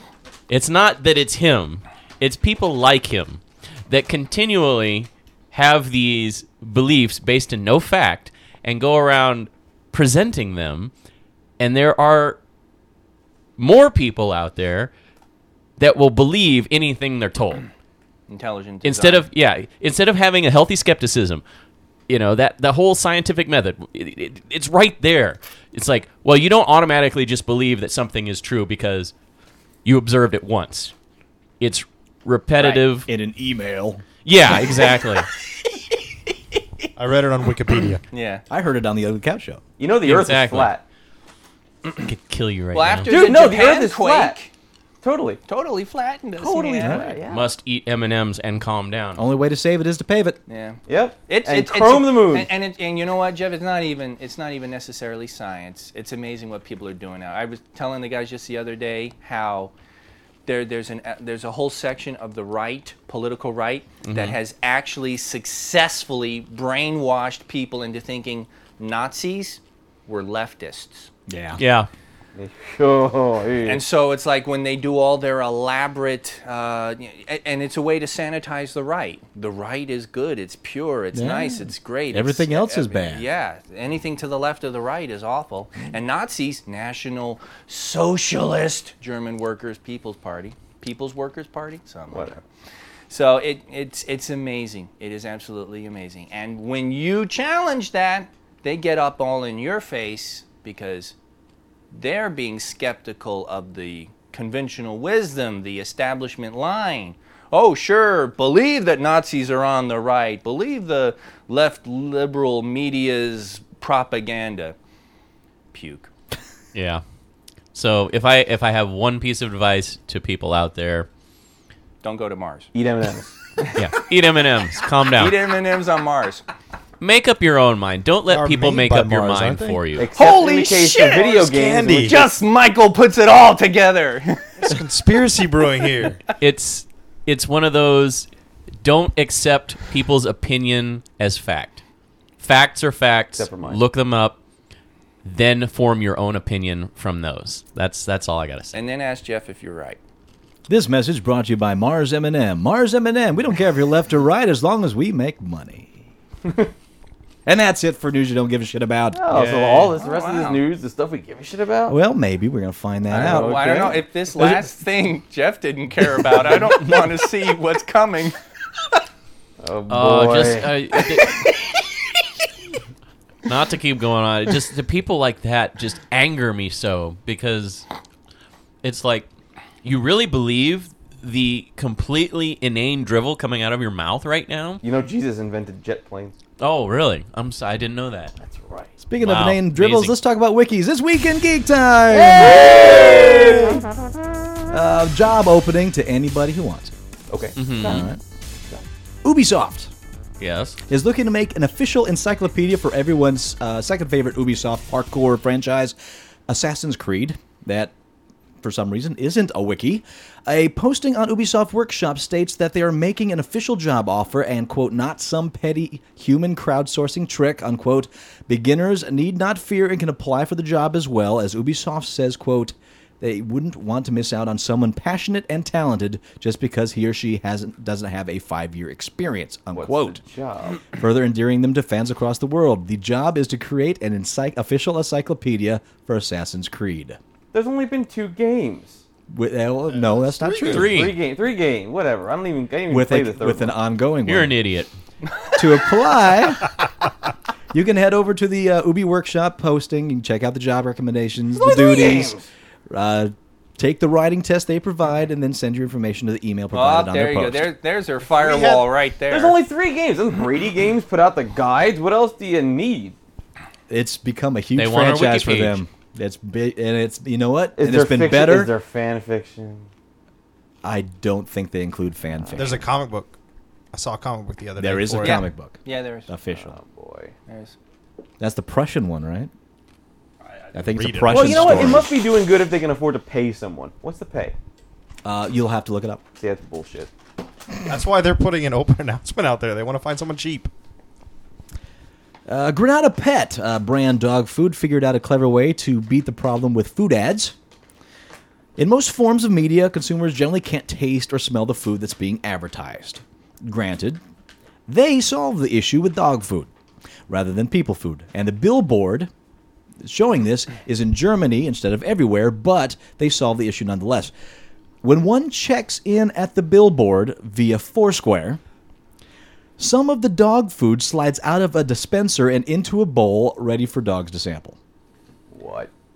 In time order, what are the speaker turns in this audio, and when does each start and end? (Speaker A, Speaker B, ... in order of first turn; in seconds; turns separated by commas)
Speaker A: 0.5-10.9, Speaker A: 11.6-12.4, Speaker A: 13.6-14.9, Speaker A: 15.8-17.7, Speaker B: 18.3-19.3, Speaker A: 18.8-21.4, Speaker A: 22.1-29.1, Speaker A: 29.9-30.9, Speaker A: 31.6-33.1, Speaker B: 32.6-32.9, Speaker C: 33.1-34.0, Speaker A: 34.2-35.3, Speaker D: 37.0-38.0, Speaker B: 38.1-38.4, Speaker C: 38.5-39.6, Speaker E: 39.8-40.8, Speaker A: 40.0-40.7, Speaker A: 42.0-43.1, Speaker B: 42.7-44.5, Speaker E: 43.1-44.4, Speaker E: 45.0-45.4, Speaker B: 45.5-47.2, Speaker E: 46.4-47.5, Speaker C: 46.8-47.1, Speaker A: 47.3-49.2, Speaker C: 49.2-50.4, Speaker B: 50.5-59.7, Speaker E: 50.9-52.5, Speaker B: 60.5-71.1, Speaker A: 64.0-64.4, Speaker C: 71.3-71.6, Speaker A: 71.6-71.9, Speaker E: 72.3-73.8, Speaker B: 73.6-92.4, Speaker C: 81.1-83.2, Speaker E: 92.1-92.4, Speaker B: 93.1-101.1, Speaker B: 101.9-114.8, Speaker B: 115.7-116.1, Speaker A: 116.7-117.0, Speaker A: 117.7-121.1, Speaker B: 122.0-122.7, Speaker E: 122.7-123.3, Speaker A: 123.8-125.4, Speaker B: 125.1-126.4, Speaker A: 127.0-130.1, Speaker D: 128.3-129.9, Speaker E: 129.9-132.2, Speaker B: 130.2-134.7, Speaker D: 131.1-132.2, Speaker D: 134.6-136.2, Speaker A: 136.4-138.3, Speaker A: 138.8-141.8, Speaker A: 142.4-144.4, Speaker E: 143.4-143.8, Speaker A: 145.2-148.8, Speaker B: 148.7-150.0, Speaker C: 150.7-155.9, Speaker E: 156.4-156.7, Speaker C: 157.5-159.5, Speaker E: 159.1-162.0, Speaker B: 160.0-160.6, Speaker C: 161.9-163.6, Speaker E: 163.1-164.1, Speaker B: 163.1-168.4, Speaker C: 164.4-164.7, Speaker E: 169.6-170.7, Speaker A: 169.9-171.4, Speaker A: 173.4-177.9, Speaker A: 178.8-179.3, Speaker A: 179.8-184.8, Speaker E: 184.8-186.3, Speaker A: 186.6-188.4, Speaker E: 188.4-188.9, Speaker C: 189.1-193.2, Speaker A: 189.2-190.2, Speaker E: 192.1-193.8, Speaker C: 194.7-196.9, Speaker E: 197.3-198.1, Speaker A: 197.6-198.1, Speaker C: 197.8-198.2, Speaker C: 199.2-199.9, Speaker A: 200.4-200.8, Speaker C: 200.9-206.0, Speaker C: 206.5-207.9, Speaker C: 208.6-230.2, Speaker E: 229.7-230.9, Speaker C: 230.9-237.2, Speaker E: 237.5-239.0, Speaker C: 239.3-241.1, Speaker D: 240.2-240.8, Speaker A: 240.7-241.2, Speaker E: 240.7-243.8, Speaker C: 242.9-244.6, Speaker A: 244.2-244.9, Speaker C: 245.6-246.7, Speaker C: 247.7-252.4, Speaker E: 251.6-252.4, Speaker C: 252.9-257.7, Speaker B: 256.7-259.6, Speaker D: 258.3-258.9, Speaker E: 259.3-263.2, Speaker C: 263.9-268.7, Speaker A: 264.8-265.8, Speaker E: 267.8-269.9, Speaker C: 270.8-272.8, Speaker E: 272.4-272.8, Speaker D: 272.6-273.4, Speaker D: 273.9-275.4, Speaker C: 274.8-276.8, Speaker B: 275.2-276.3, Speaker E: 276.5-277.3, Speaker B: 277.5-277.8, Speaker C: 278.4-279.5, Speaker D: 280.7-282.1, Speaker C: 280.7-282.2, Speaker E: 281.3-284.6, Speaker C: 285.2-286.2, Speaker E: 286.4-287.1, Speaker D: 287.8-290.7, Speaker C: 292.5-297.6, Speaker C: 298.8-304.2, Speaker C: 304.9-306.7, Speaker C: 307.3-309.3, Speaker C: 310.0-314.3, Speaker C: 315.0-318.6, Speaker C: 319.8-324.8, Speaker E: 325.5-325.9